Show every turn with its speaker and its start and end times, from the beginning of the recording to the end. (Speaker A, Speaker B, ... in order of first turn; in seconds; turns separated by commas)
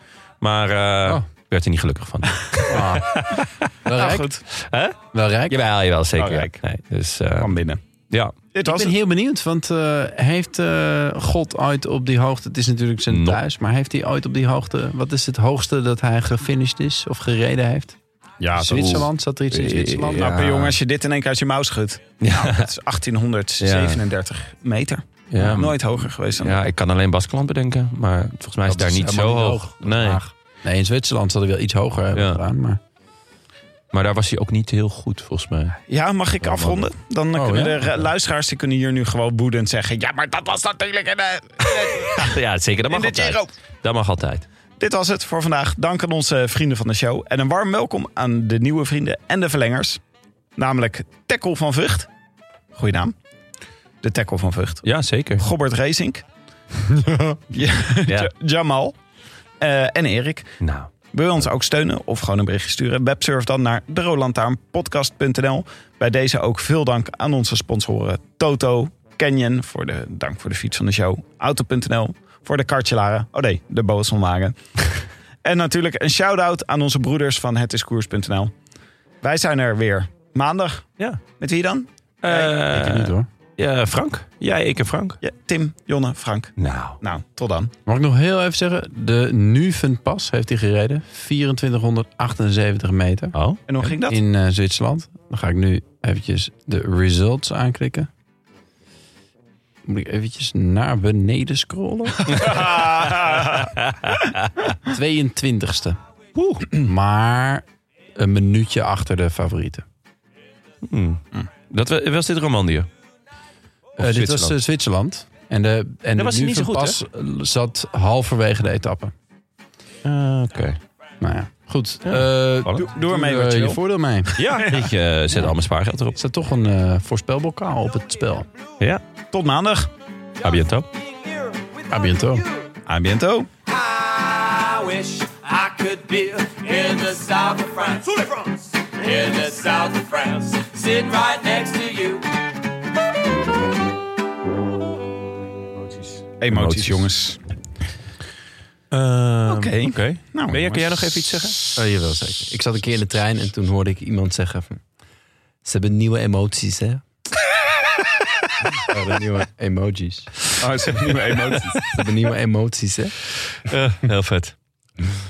Speaker A: 0.4-3.7, Speaker B: 2.7-3.2, Speaker B: 3.8-4.3, Speaker C: 3.9-4.4, Speaker A: 4.5-7.5, Speaker B: 5.1-5.5, Speaker C: 6.2-6.6, Speaker C: 7.4-7.8, Speaker C: 8.5-8.9, Speaker B: 8.6-17.9, Speaker A: 13.1-13.4, Speaker C: 18.4-19.0, Speaker B: 18.5-20.3, Speaker A: 18.7-20.8, Speaker C: 20.2-26.6, Speaker A: 22.2-22.7, Speaker A: 23.6-24.0, Speaker A: 25.3-25.8, Speaker A: 26.4-30.2, Speaker B: 28.6-32.8, Speaker A: 32.1-32.4, Speaker A: 33.9-35.8, Speaker C: 35.9-42.4, Speaker A: 36.4-36.9, Speaker B: 37.3-38.0, Speaker A: 41.7-44.4, Speaker C: 42.9-43.5, Speaker C: 44.8-50.0, Speaker C: 50.6-52.1, Speaker C: 52.7-53.1, Speaker C: 54.0-54.9, Speaker A: 54.8-55.4, Speaker C: 55.4-56.2, Speaker B: 56.9-57.4, Speaker C: 57.5-58.9, Speaker A: 58.0-58.3, Speaker C: 59.6-60.6, Speaker A: 60.6-60.9, Speaker C: 61.1-74.5, Speaker C: 75.4-78.5, Speaker C: 79.2-82.5, Speaker A: 82.2-85.2, Speaker B: 82.7-83.3, Speaker C: 85.2-87.7, Speaker A: 86.6-87.0, Speaker B: 87.8-98.1, Speaker A: 93.3-93.6, Speaker C: 93.7-94.2, Speaker B: 99.8-102.7, Speaker A: 102.3-104.5, Speaker C: 102.4-103.7, Speaker B: 104.8-106.0, Speaker A: 106.3-106.7, Speaker B: 106.7-107.6, Speaker B: 108.2-109.8, Speaker A: 110.8-112.9, Speaker A: 114.0-114.5, Speaker B: 114.0-119.1, Speaker A: 116.2-117.0, Speaker A: 120.0-120.8, Speaker B: 121.2-124.4, Speaker A: 122.0-122.8, Speaker C: 122.8-123.8, Speaker A: 124.3-126.2, Speaker B: 126.1-128.5, Speaker C: 129.3-129.9, Speaker A: 130.4-130.9, Speaker D: 131.1-132.5, Speaker B: 131.9-132.4, Speaker C: 132.9-133.5, Speaker D: 133.7-142.3, Speaker C: 146.4-147.4, Speaker A: 146.5-147.0, Speaker A: 148.9-151.6, Speaker C: 149.5-151.4, Speaker B: 151.8-154.8, Speaker B: 155.6-157.0, Speaker B: 158.8-160.3, Speaker C: 160.6-161.9, Speaker B: 161.8-163.1, Speaker A: 163.6-164.5